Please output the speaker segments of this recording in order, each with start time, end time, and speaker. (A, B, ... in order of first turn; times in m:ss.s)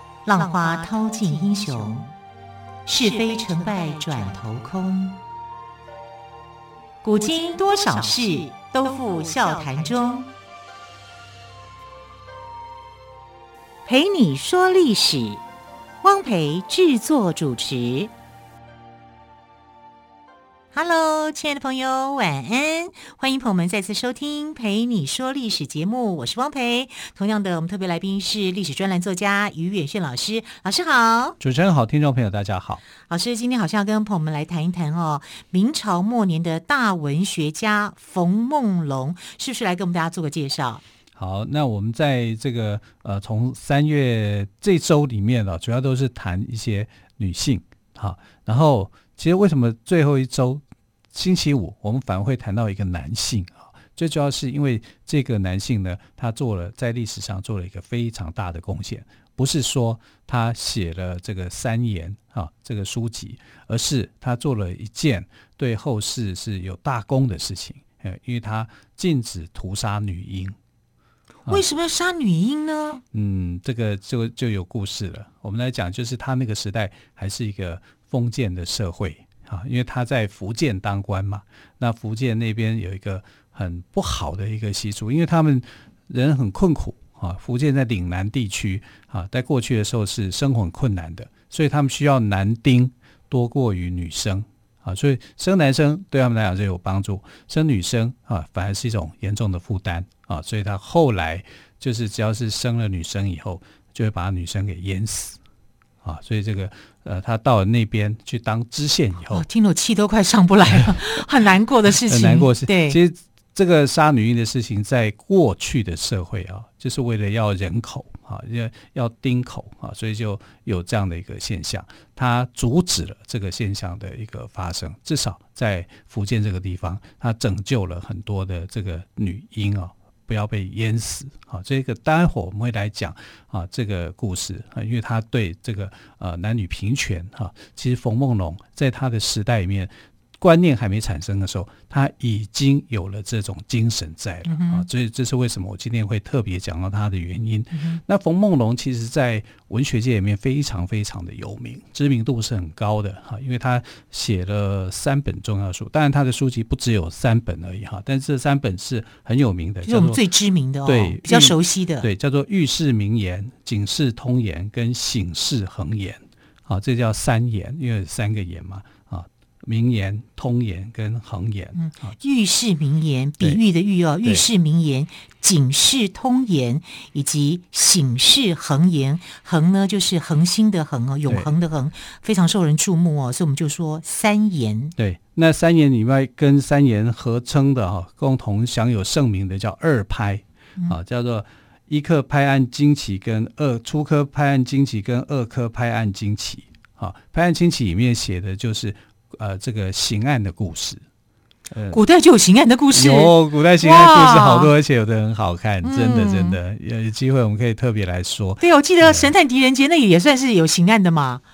0:00.3-0:02.1 A
0:02.9-0:05.2 A
0:07.0-0:10.3 A
0:13.9-0:15.4 A
0:16.0-0:18.1 A
0:20.7-0:31.4 A
0:31.4-0:32.8 B
0:33.0-0:40.8 A
0:41.2-1:10.6 B
1:11.5-1:13.0 A
1:13.1-1:45.4 B
1:46.0-1:49.5 B
1:49.3-1:53.0 A
1:52.1-2:40.2 B
2:24.5-2:24.9 A
2:27.7-2:28.0 A
2:39.8-2:42.1 A
2:40.8-2:52.1 B
2:51.8-3:05.0 A
3:01.3-3:01.5 B
3:05.0-3:21.0 B
3:21.7-3:22.0 B
3:21.9-3:24.7 A
3:22.9-3:29.3 B
3:25.8-3:26.6 A
3:28.6-3:31.4 A